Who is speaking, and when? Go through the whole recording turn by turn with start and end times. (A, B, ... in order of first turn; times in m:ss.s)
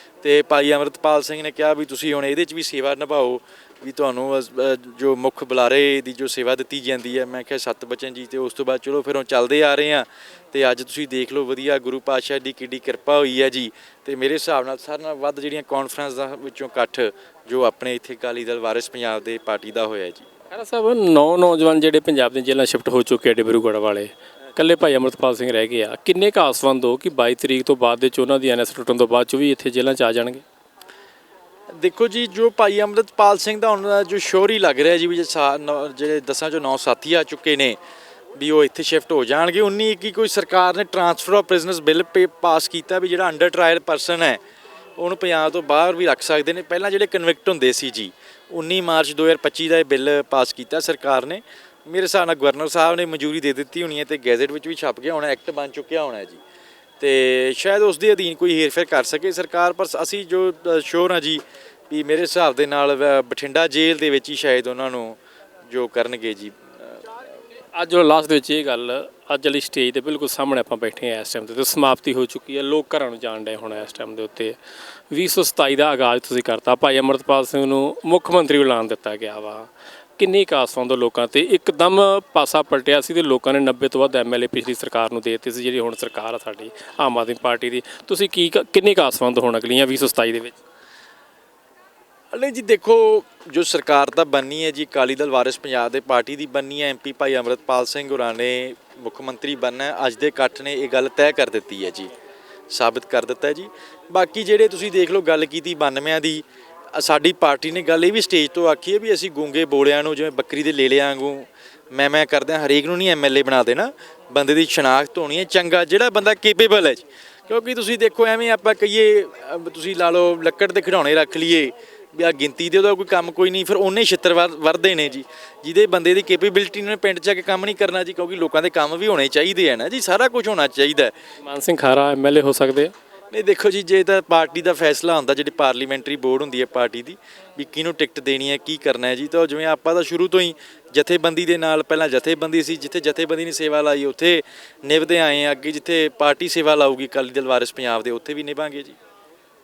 0:00.2-0:20.3 A
0:20.5-0:30.4 B
0:31.8-0:37.8 A
0:38.4-0:44.4 A
0:45.0-0:56.4 A
0:57.0-1:07.0 A
1:07.7-1:14.6 B
1:15.1-1:30.6 B
1:32.3-1:42.1 A
1:42.7-2:11.1 A
2:11.4-2:12.9 B
2:13.3-2:29.0 A